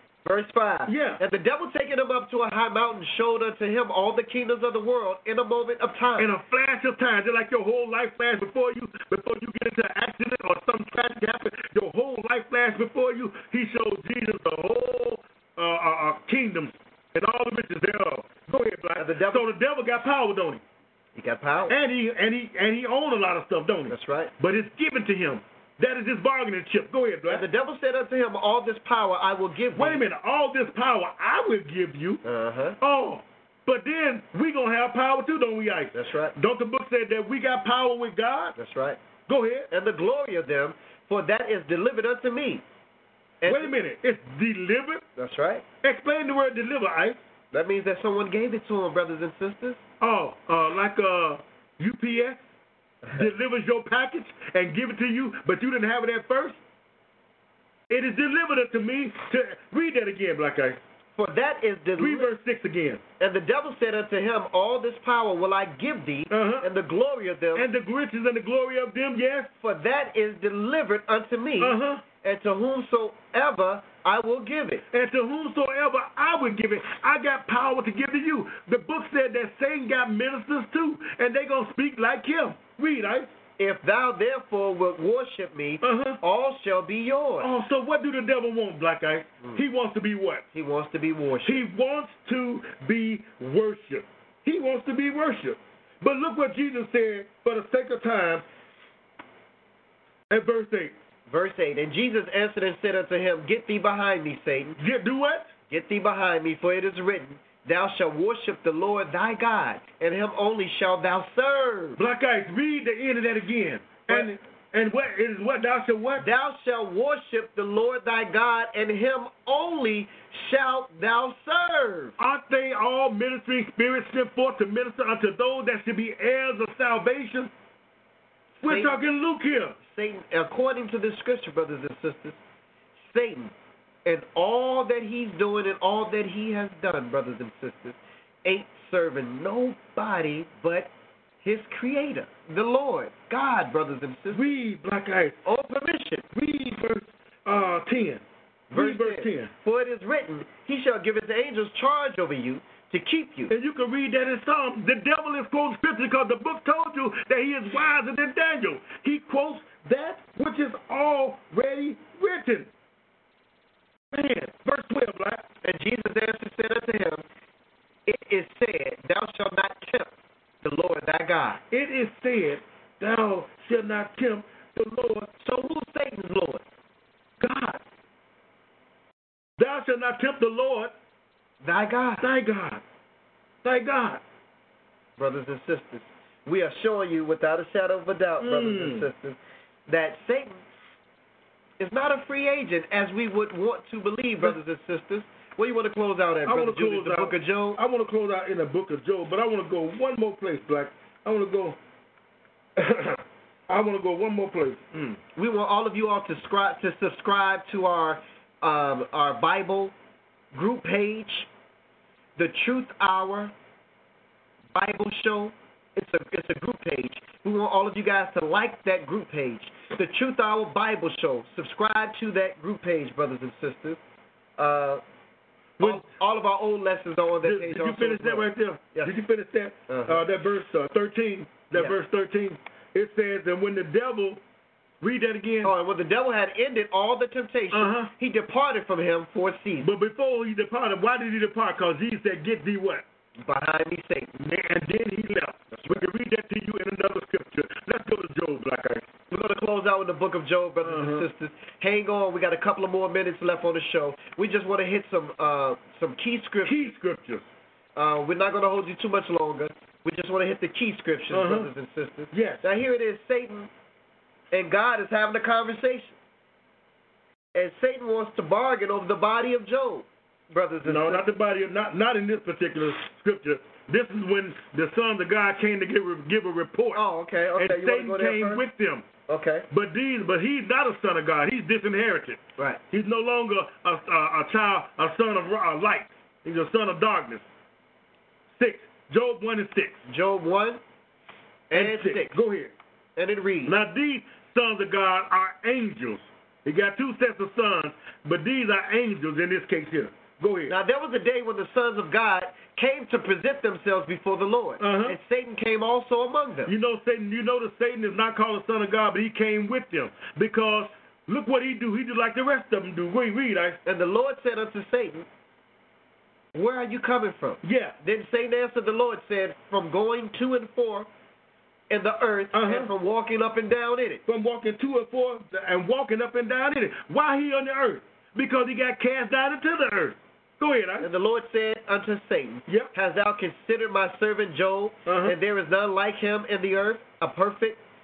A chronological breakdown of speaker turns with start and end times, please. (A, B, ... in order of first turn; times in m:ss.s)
0:00.2-0:06.3 A
0:00.9-0:01.2 B
0:06.2-0:20.6 B
0:19.0-0:19.5 A
0:21.2-0:21.8 A
0:21.7-0:27.5 B
0:23.9-0:24.3 A
0:27.3-0:30.0 A
0:29.8-0:32.2 B
0:32.2-0:32.8 A
0:32.8-0:38.6 B
0:35.9-0:36.4 A
0:38.6-0:39.0 A
0:39.3-0:39.7 B
0:39.7-0:42.6 A
0:43.4-0:43.7 A
0:43.4-0:45.0 B
0:45.2-0:45.6 A
0:45.8-0:47.2 B
0:47.5-0:49.8 A
0:50.0-0:52.4 B
0:53.1-0:56.6 B
0:57.9-1:00.8 B
1:01.2-1:02.3 A
1:02.0-1:03.0 B
1:03.2-1:07.7 A
1:06.3-1:06.7 B
1:07.5-1:09.5 B
1:09.6-1:14.8 A
1:11.6-1:12.0 B
1:14.9-1:23.3 B
1:23.6-1:27.5 A
1:25.8-1:26.2 B
1:27.4-1:30.4 B
1:30.5-1:31.6 A
1:31.4-1:38.4 B
1:40.3-1:40.9 B
1:41.3-1:44.8 A
1:44.8-1:45.5 B
1:45.7-1:52.0 A
1:52.0-1:56.3 B
1:54.1-1:54.3 A
1:56.2-2:02.2 A
2:02.2-2:07.5 B
2:08.6-2:09.0 A
2:08.6-2:09.8 B
2:09.9-2:12.4 A
2:13.0-2:13.5 A
2:14.0-2:20.9 A
2:21.4-2:24.5 A
2:24.3-2:25.4 B
2:25.4-2:26.3 A
2:26.4-2:29.5 B
2:28.7-2:33.5 A
2:33.5-2:42.7 B
2:44.1-2:45.4 B
2:45.6-2:47.2 A
2:48.1-2:50.1 A
2:50.6-2:51.6 A
2:51.7-2:55.3 B
2:55.4-2:56.6 A
2:57.4-2:57.8 B
2:59.6-3:00.9 B
3:01.6-3:02.3 A
3:02.2-3:02.8 B
3:03.6-3:04.2 B
3:05.2-3:10.6 A
3:08.4-3:09.1 B
3:11.8-3:17.8 A
3:16.5-3:21.8 B
3:22.8-3:25.2 B
3:25.4-3:29.9 A
3:30.5-3:31.5 A
3:32.4-3:33.5 A
3:34.7-3:44.0 A
3:44.6-3:45.0 A
3:45.8-3:46.1 B
3:45.8-3:49.2 A
3:47.4-3:54.4 B
3:49.9-3:50.2 A
3:55.0-3:55.7 B
3:55.6-3:59.9 A
3:57.7-3:58.1 B
3:59.8-4:03.0 B
4:03.4-4:04.3 A
4:04.4-4:09.1 B
4:05.7-4:06.0 A
4:09.3-4:16.9 A
4:10.8-4:11.3 B
4:16.6-4:17.5 B
4:18.0-4:23.7 A
4:21.3-4:21.7 B
4:22.3-4:22.6 B
4:24.5-4:26.2 A
4:27.5-4:31.3 A
4:30.8-4:37.0 B
4:36.9-4:38.6 A
4:37.6-4:39.0 B
4:39.3-4:39.7 A
4:39.7-4:42.4 B
4:42.9-4:47.4 B
4:48.6-4:50.0 B
4:50.1-4:50.8 A
4:51.7-4:52.4 A
4:51.7-4:52.7 B
4:53.2-4:53.8 A
4:53.6-5:00.7 B
5:00.7-5:06.7 A
5:04.8-5:05.2 B
5:06.7-5:13.8 B
5:13.8-5:15.3 A
5:16.5-5:21.1 A
5:17.6-5:18.0 B
5:21.9-5:24.2 A
5:22.5-5:22.9 B
5:24.3-5:31.1 B
5:31.0-5:37.8 A
5:35.1-5:35.4 B